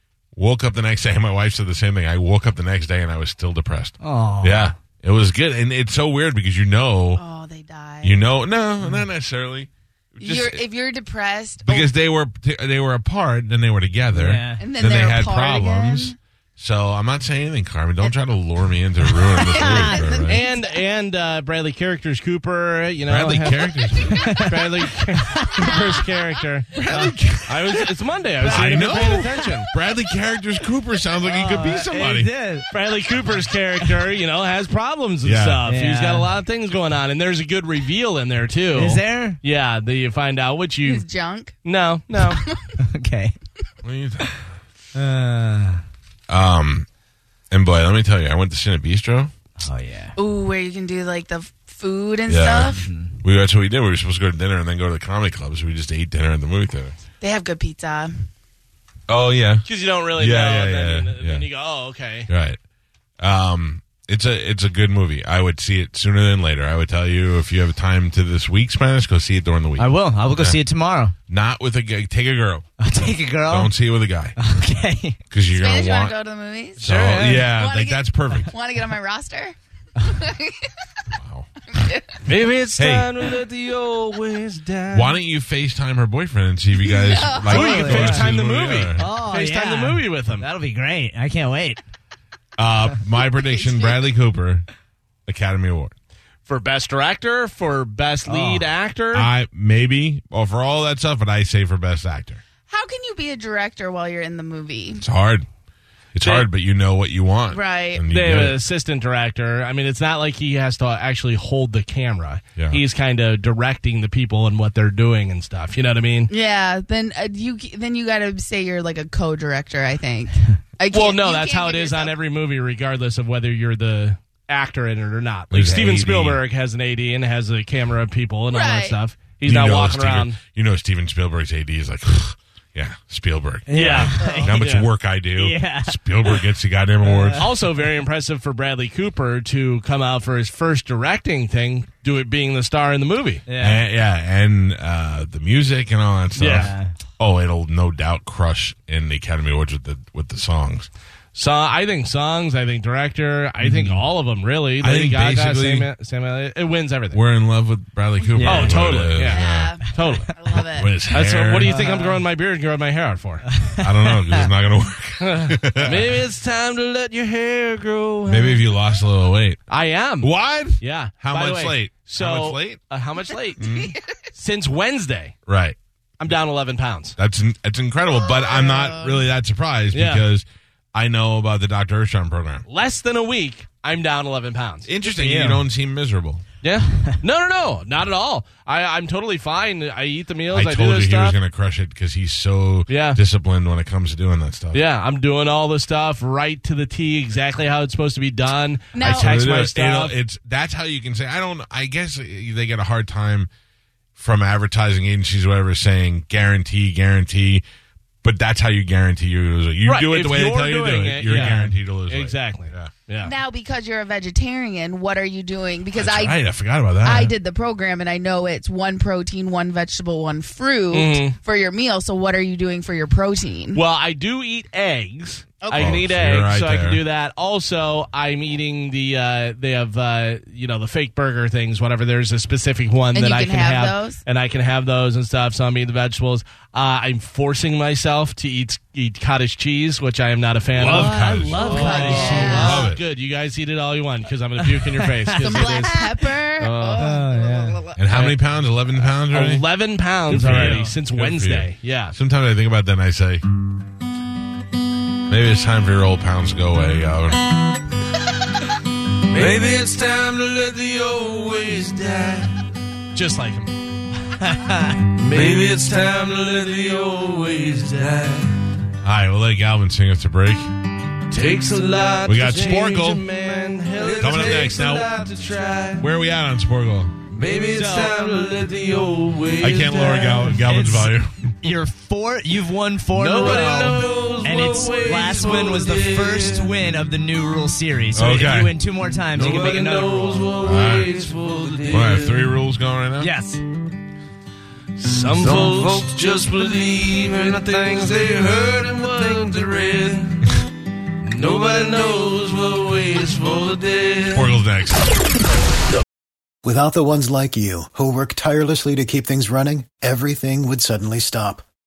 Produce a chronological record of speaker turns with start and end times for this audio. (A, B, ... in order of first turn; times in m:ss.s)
0:00.4-0:07.2 A
0:04.0-0:04.7 B
0:07.2-0:08.2 C
0:08.0-0:10.6 A
0:10.2-0:11.9 C
0:11.6-0:20.4 A
0:14.1-0:14.6 B
0:14.6-0:16.2 C
0:19.2-0:20.8 C
0:19.5-0:20.1 B
0:20.3-0:23.8 D
0:23.1-0:24.3 A
0:23.9-0:24.4 C
0:24.1-0:25.9 B
0:24.4-0:29.7 D
0:25.5-0:26.1 C
0:26.8-0:27.9 A
0:28.4-0:32.3 A
0:31.3-0:32.7 B
0:32.7-0:41.0 D
0:35.2-0:35.6 A
0:35.6-0:36.3 B
0:38.7-0:39.4 B
0:40.8-0:41.6 C
0:41.6-0:42.4 D
0:42.2-0:42.7 C
0:42.8-0:43.4 B
0:43.8-0:44.4 A
0:45.0-0:45.8 B
0:46.3-0:46.9 A
0:47.5-0:49.3 A
0:49.6-0:50.2 B
0:50.2-0:52.8 C
0:52.3-0:56.9 A
0:52.6-0:53.2 B
0:57.2-0:58.3 C
0:59.1-1:01.5 A
0:59.6-1:02.3 D
1:02.3-1:02.6 A
1:03.2-1:10.6 A
1:09.8-1:11.1 B
1:11.3-1:12.7 A
1:12.8-1:13.7 B
1:13.5-1:14.4 A
1:14.4-1:15.2 B
1:15.3-1:16.2 A
1:15.5-1:16.9 C
1:16.8-1:17.5 B
1:16.8-1:18.5 A
1:17.5-1:20.8 C
1:21.1-1:21.5 A
1:21.7-1:22.2 C
1:22.2-1:25.2 D
1:22.8-1:23.1 A
1:24.9-1:29.1 A
1:26.8-1:27.9 C
1:27.4-1:28.3 B
1:27.5-1:30.5 D
1:29.0-1:31.8 B
1:32.6-1:34.7 A
1:33.2-1:34.1 C
1:35.3-1:35.9 A
1:36.5-1:39.3 D
1:38.2-1:38.7 B
1:39.1-1:42.4 A
1:42.7-1:45.0 C
1:45.0-1:45.5 A
1:46.2-1:48.6 A
1:46.2-1:46.5 D
1:47.5-1:48.0 C
1:48.1-1:56.3 D
1:52.6-1:52.8 A
1:56.3-2:02.2 C
2:00.9-2:10.4 D
2:05.5-2:06.4 A
2:08.5-2:09.0 C
2:09.4-2:17.5 A
2:13.7-2:14.6 B
2:13.7-2:14.9 D
2:14.1-2:14.4 C
2:15.4-2:16.0 B
2:17.0-2:17.5 B
2:17.4-2:23.4 D
2:23.5-2:23.8 B
2:23.6-2:30.9 A
2:26.4-2:26.7 D
2:26.4-2:26.9 B
2:31.4-2:37.2 D
2:33.6-2:34.1 A
2:34.8-2:35.9 A
2:37.1-2:39.8 A
2:38.4-2:40.3 D
2:38.4-2:40.9 C
2:40.6-2:41.8 A
2:41.1-2:43.5 D
2:41.7-2:42.2 B
2:43.4-2:43.8 B
2:43.8-2:46.2 A
2:45.2-2:48.7 D
2:48.3-2:49.6 A
2:49.7-2:53.6 D
2:50.2-2:52.8 A
2:53.6-2:54.2 C
2:53.6-2:54.0 A
2:54.3-2:55.3 D
2:55.5-2:55.8 A
2:56.2-2:57.2 D
2:57.2-3:02.6 A
2:58.1-2:59.2 C
2:59.9-3:00.3 D
3:02.7-3:04.9 D
3:04.9-3:06.4 A
3:05.1-3:05.7 B
3:06.6-3:11.4 D
3:06.9-3:07.2 B
3:10.5-3:14.8 A
3:12.9-3:13.2 D
3:14.7-3:20.2 D
3:19.0-3:19.4 C
3:19.0-3:23.5 A
3:24.2-3:27.6 A
3:28.2-3:32.9 A
3:29.8-3:33.3 D
3:33.2-3:36.4 C
3:36.0-3:37.4 A
3:37.0-3:43.8 C
3:40.9-3:41.4 D
3:43.7-4:05.9 D
3:45.6-3:46.0 C
3:45.8-3:47.0 A
3:53.1-3:54.2 C
4:00.8-4:01.7 A
4:00.8-4:02.8 B
4:01.7-4:02.9 C
4:02.5-4:03.0 A
4:04.6-4:06.2 B
4:05.4-4:08.0 C
4:06.6-4:07.0 D
4:07.0-4:07.8 B
4:08.0-4:09.6 A
4:08.1-4:08.4 D
4:09.0-4:12.2 D
4:10.3-4:11.0 B
4:10.3-4:13.4 A
4:15.3-4:17.5 A
4:19.3-4:19.8 D
4:19.3-4:22.5 E
4:21.6-4:22.0 D
4:23.1-4:23.7 D
4:24.4-4:25.0 B
4:25.2-4:27.3 D
4:25.2-4:28.5 E
4:29.0-4:30.7 A
4:31.3-4:36.0 D
4:31.3-4:32.6 E
4:32.3-4:33.2 A
4:33.9-4:36.0 E
4:34.2-4:35.1 A
4:36.0-4:37.2 A
4:37.4-4:40.5 E
4:37.5-4:40.2 D
4:37.7-4:38.2 B
4:39.6-4:41.5 A
4:40.5-4:50.6 B
4:43.2-4:46.5 D
4:43.4-4:46.7 E
4:48.1-4:48.7 A
4:49.3-4:52.3 D
4:49.5-4:52.4 E
4:50.6-4:51.1 A
4:51.9-4:53.3 A
4:53.2-4:53.6 B
4:55.0-5:00.4 D
4:55.3-5:00.1 E
5:01.3-5:04.4 D
5:01.4-5:02.4 E
5:02.9-5:03.2 E
5:04.3-5:05.1 A
5:06.6-5:11.6 F